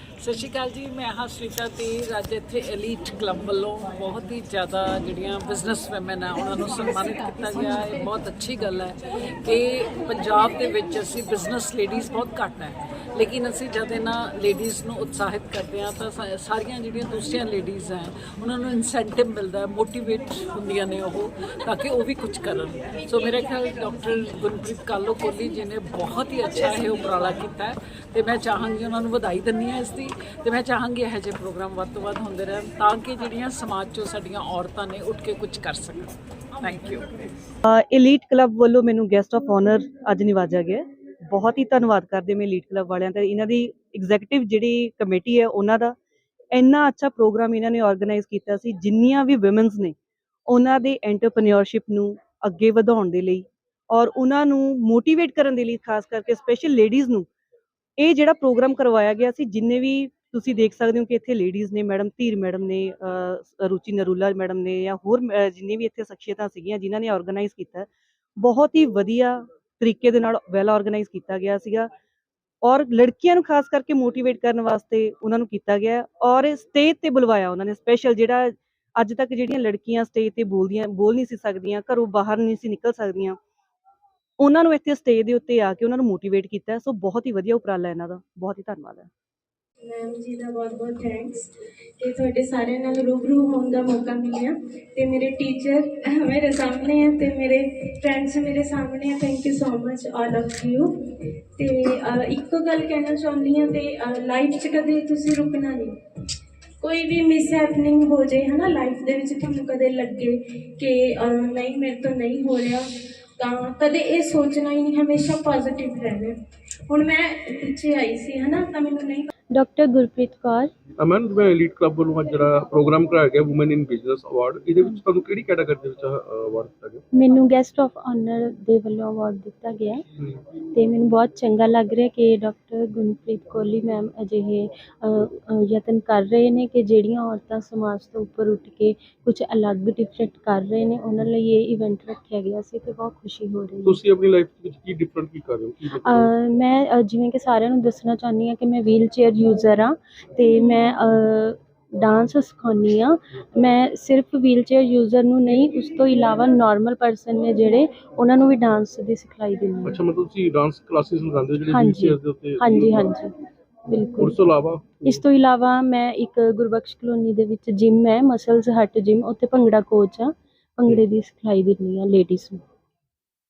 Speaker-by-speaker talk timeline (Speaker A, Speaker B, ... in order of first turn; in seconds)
Speaker A: 0.2-37.0
Speaker B: 37.6-46.0, 46.5-49.9, 50.5-57.3, 58.0-67.9, 68.4-71.9, 72.6-83.4, 84.4-89.1
Speaker C: 89.8-91.5, 92.0-105.9, 106.8-112.8, 113.4-116.3, 116.9-119.3
Speaker D: 119.5-120.7, 127.1-130.0, 130.7-144.0, 146.0-160.0, 161.7-163.3, 163.9-164.4, 165.0-172.6
Speaker E: 121.0-127.0, 143.8-146.3, 159.8-163.1, 164.2-165.2